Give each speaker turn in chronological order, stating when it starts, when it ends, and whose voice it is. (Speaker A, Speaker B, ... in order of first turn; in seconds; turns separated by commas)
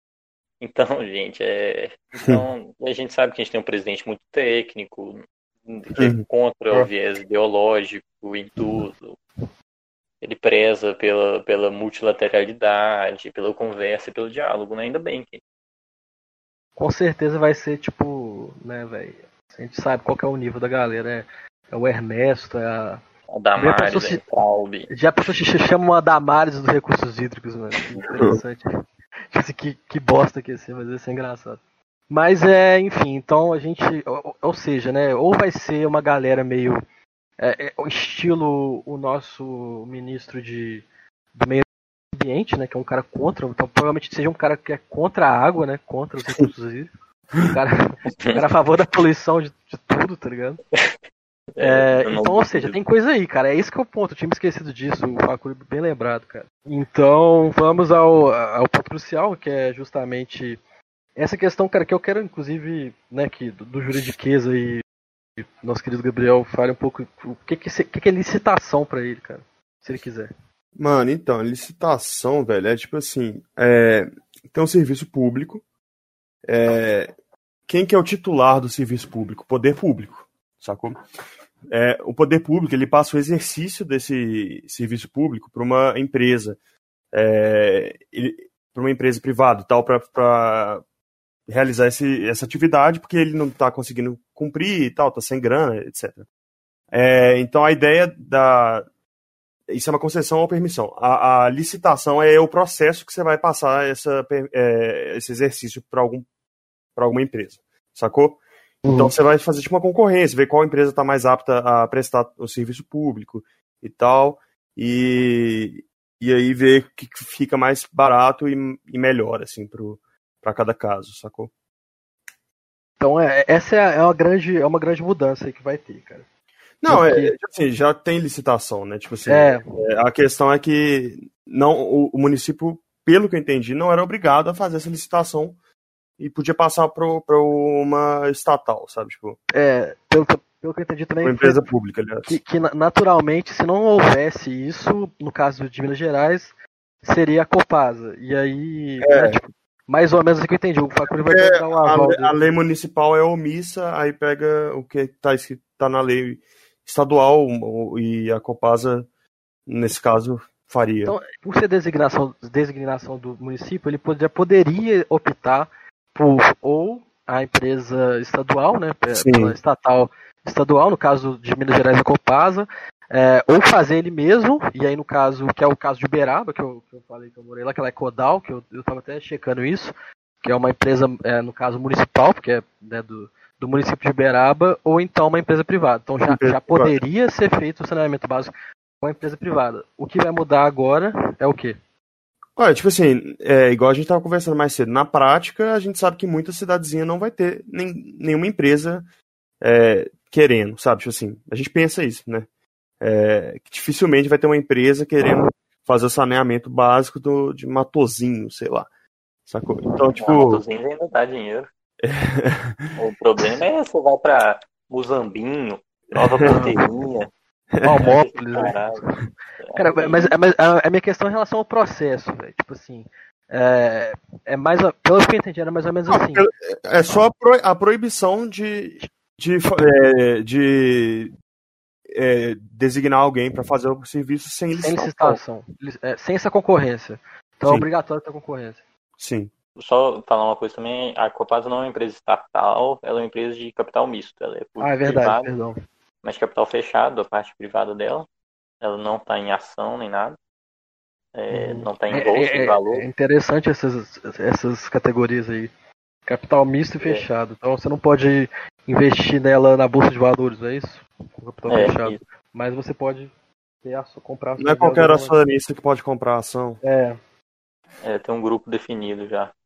Speaker A: 0.6-9.2, Speaker B: 6.0-6.2, Speaker A: 10.2-15.4, Speaker C: 16.8-23.0, Speaker A: 23.3-24.9, Speaker C: 23.6-24.2, Speaker C: 24.9-28.6, Speaker C: 29.3-36.8, Speaker C: 37.4-50.6, Speaker A: 51.5-52.7, Speaker C: 51.6-60.6, Speaker C: 61.2-64.8, Speaker C: 65.4-70.3, Speaker B: 70.8-75.6, Speaker B: 76.5-77.1, Speaker B: 77.7-81.0, Speaker B: 81.7-86.6, Speaker B: 87.1-90.8, Speaker B: 91.5-96.2, Speaker B: 96.9-98.9, Speaker B: 99.7-106.2, Speaker B: 107.0-121.5, Speaker C: 108.8-109.1, Speaker C: 123.0-126.2, Speaker B: 126.8-135.6, Speaker C: 126.9-127.3, Speaker C: 129.2-129.6, Speaker B: 136.2-139.4, Speaker C: 139.5-141.7, Speaker B: 141.2-142.4, Speaker C: 142.2-152.3, Speaker B: 149.0-149.4, Speaker B: 151.2-159.1, Speaker B: 159.7-161.2, Speaker C: 161.0-191.8, Speaker B: 169.2-169.5, Speaker B: 186.2-187.0, Speaker B: 192.6-199.1, Speaker B: 199.6-202.5, Speaker B: 203.0-208.9, Speaker B: 209.4-210.6, Speaker A: 210.1-211.7, Speaker B: 212.0-212.9, Speaker A: 212.9-217.3, Speaker B: 216.2-216.4, Speaker C: 216.4-216.8, Speaker B: 217.7-218.1, Speaker C: 217.8-219.2, Speaker A: 218.0-219.0, Speaker A: 219.6-220.4, Speaker C: 219.7-226.4, Speaker B: 226.1-231.3, Speaker B: 232.1-235.4, Speaker C: 234.8-238.8, Speaker B: 239.2-239.5, Speaker A: 239.8-245.5, Speaker C: 244.8-245.7, Speaker A: 246.2-248.3, Speaker A: 248.8-250.4, Speaker A: 251.3-253.1, Speaker C: 251.5-255.7, Speaker C: 256.2-263.3, Speaker A: 257.0-257.3, Speaker A: 261.7-262.2, Speaker C: 263.8-265.4, Speaker B: 264.6-266.8, Speaker C: 266.8-267.2, Speaker A: 268.0-269.5